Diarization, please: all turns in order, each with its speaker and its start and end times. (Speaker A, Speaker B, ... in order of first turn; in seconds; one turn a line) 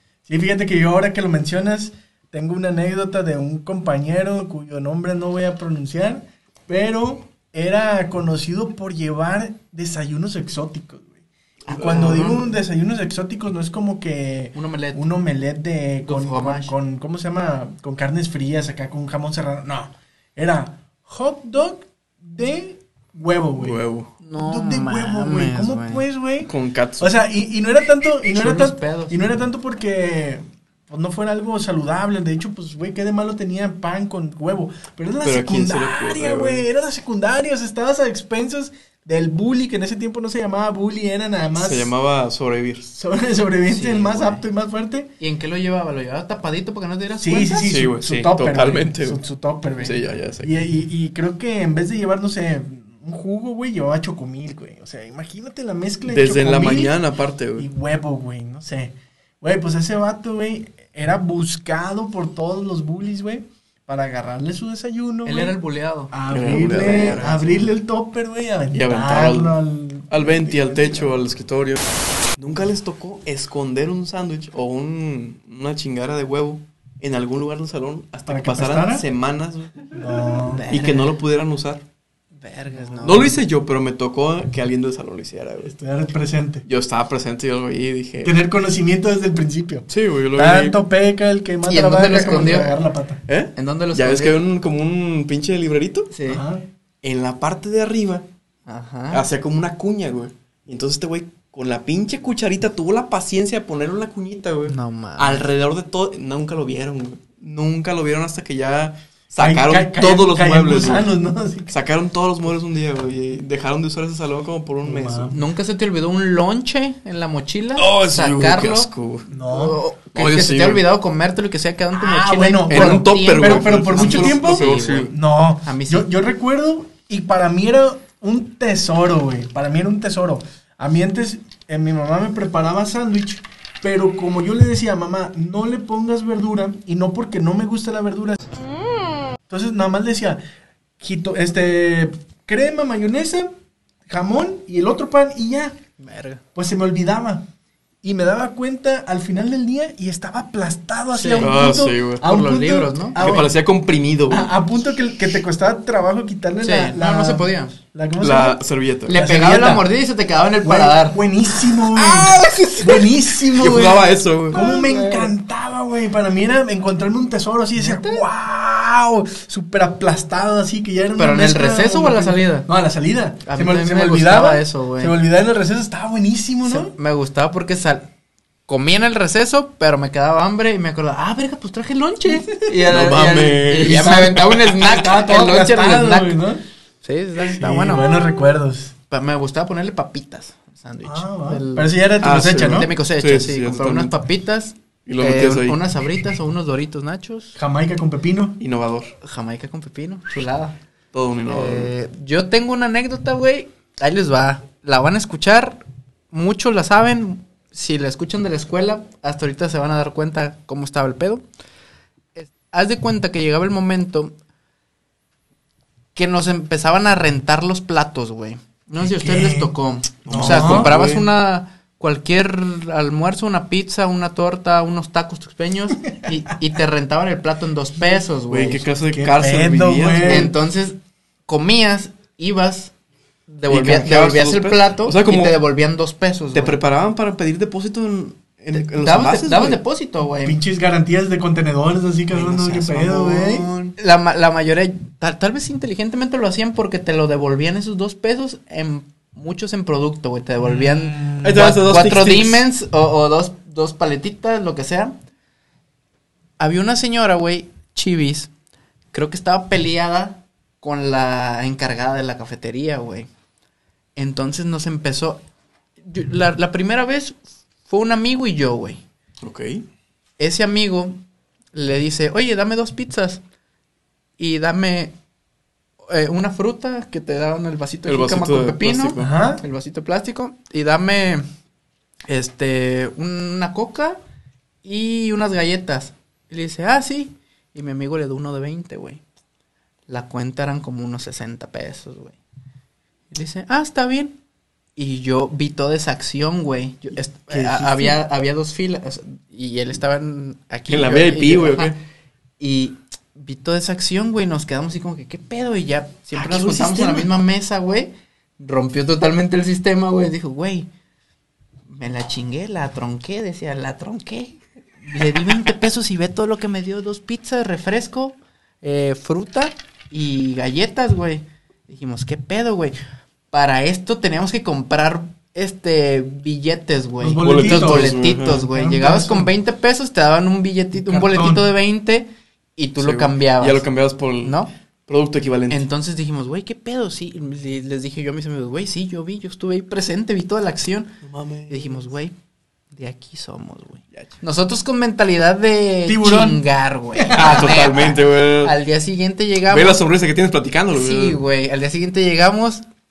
Speaker A: 0.3-23.8
Speaker B: 11.7-12.5
Speaker C: 11.9-12.2
Speaker B: 14.5-15.0
Speaker B: 16.1-16.8
Speaker C: 23.6-24.1
Speaker B: 24.2-26.1
Speaker A: 24.4-41.9
Speaker C: 26.4-27.1
Speaker B: 28.3-29.2
Speaker C: 35.2-36.6
Speaker C: 41.6-42.9
Speaker A: 42.9-45.1
Speaker B: 43.7-44.4
Speaker B: 45.2-47.7
Speaker A: 47.2-57.0
Speaker C: 47.7-49.2
Speaker C: 49.8-50.5
Speaker C: 56.1-57.7
Speaker A: 57.6-65.5
Speaker B: 65.2-67.7
Speaker A: 66.1-71.2
Speaker C: 66.3-67.4
Speaker C: 68.7-69.6
Speaker C: 70.1-80.0
Speaker A: 78.3-79.1
Speaker A: 79.9-80.7
Speaker B: 80.5-81.1
Speaker C: 80.7-81.8
Speaker B: 82.4-83.4
Speaker A: 82.7-83.3
Speaker C: 83.0-85.7
Speaker A: 85.6-86.7
Speaker C: 86.7-88.4
Speaker A: 88.2-93.2
Speaker C: 89.9-90.8
Speaker B: 91.7-92.8
Speaker C: 93.3-96.1
Speaker B: 93.6-94.4
Speaker B: 96.1-96.5
Speaker A: 96.2-96.7
Speaker C: 97.0-98.3
Speaker B: 98.7-99.2
Speaker C: 99.1-111.1
Speaker B: 104.7-105.5
Speaker A: 109.4-111.7
Speaker C: 111.7-115.4
Speaker A: 114.8-115.4
Speaker B: 115.3-118.9
Speaker C: 117.8-119.3
Speaker A: 119.3-119.8
Speaker B: 119.5-125.1
Speaker C: 120.1-120.9
Speaker A: 121.9-138.6
Speaker C: 122.7-125.1
Speaker B: 125.6-126.1
Speaker A: 139.5-140.4
Speaker A: 141.0-143.5
Speaker A: 144.1-145.8
Speaker B: 146.0-146.4
Speaker A: 146.6-147.5
Speaker A: 148.0-153.5
Speaker B: 151.1-151.6
Speaker C: 151.4-152.2
Speaker B: 152.2-153.2
Speaker C: 153.2-154.5
Speaker A: 154.3-159.9
Speaker B: 156.6-157.8
Speaker C: 158.2-159.2
Speaker B: 159.1-161.2
Speaker A: 160.6-176.9
Speaker C: 161.9-164.6
Speaker B: 164.5-165.3
Speaker B: 167.8-168.2
Speaker B: 171.2-172.7
Speaker B: 173.4-175.2
Speaker B: 176.7-178.1
Speaker B: 178.7-186.5
Speaker C: 182.9-184.8
Speaker A: 184.8-186.6
Speaker B: 187.0-188.3
Speaker A: 187.5-188.9
Speaker B: 189.1-197.6
Speaker A: 191.0-192.9
Speaker C: 192.2-194.2
Speaker C: 195.1-195.8
Speaker A: 197.6-198.6
Speaker C: 198.6-199.1
Speaker B: 199.2-200.8
Speaker C: 201.1-201.9
Speaker B: 201.5-211.4
Speaker B: 212.4-214.3
Speaker B: 216.2-228.9
Speaker A: 219.0-220.9
Speaker C: 220.2-221.3
Speaker C: 228.5-230.5
Speaker A: 229.1-230.6
Speaker B: 230.2-232.9
Speaker B: 233.5-236.8
Speaker C: 233.7-235.6
Speaker C: 236.5-239.8
Speaker B: 238.7-240.6
Speaker A: 240.4-243.7
Speaker C: 242.3-243.9
Speaker B: 244.0-255.2
Speaker A: 250.6-251.6
Speaker C: 251.4-252.7
Speaker B: 256.6-258.5
Speaker B: 259.1-263.3
Speaker B: 264.2-265.4
Speaker B: 266.0-269.0
Speaker C: 269.4-269.9
Speaker B: 270.4-271.2
Speaker B: 271.7-273.4
Speaker B: 274.4-275.2
Speaker B: 276.1-281.5
Speaker C: 278.1-279.3
Speaker A: 279.2-279.6
Speaker B: 282.3-284.2
Speaker B: 284.8-289.2
Speaker B: 290.1-292.4
Speaker B: 293.3-294.4
Speaker B: 295.0-301.9
Speaker C: 297.5-298.2
Speaker C: 300.9-302.0
Speaker B: 302.6-310.9
Speaker C: 306.3-307.3
Speaker B: 311.9-323.0
Speaker B: 323.5-333.9
Speaker A: 327.2-329.5
Speaker C: 327.4-328.7
Speaker A: 330.9-331.7
Speaker C: 333.0-335.9
Speaker B: 334.4-334.7
Speaker B: 335.7-341.1
Speaker C: 341.2-342.1
Speaker B: 341.7-342.4
Speaker B: 342.9-350.0
Speaker A: 346.1-346.6
Speaker A: 347.1-347.7
Speaker C: 347.3-348.8
Speaker C: 349.7-351.4
Speaker B: 350.9-352.9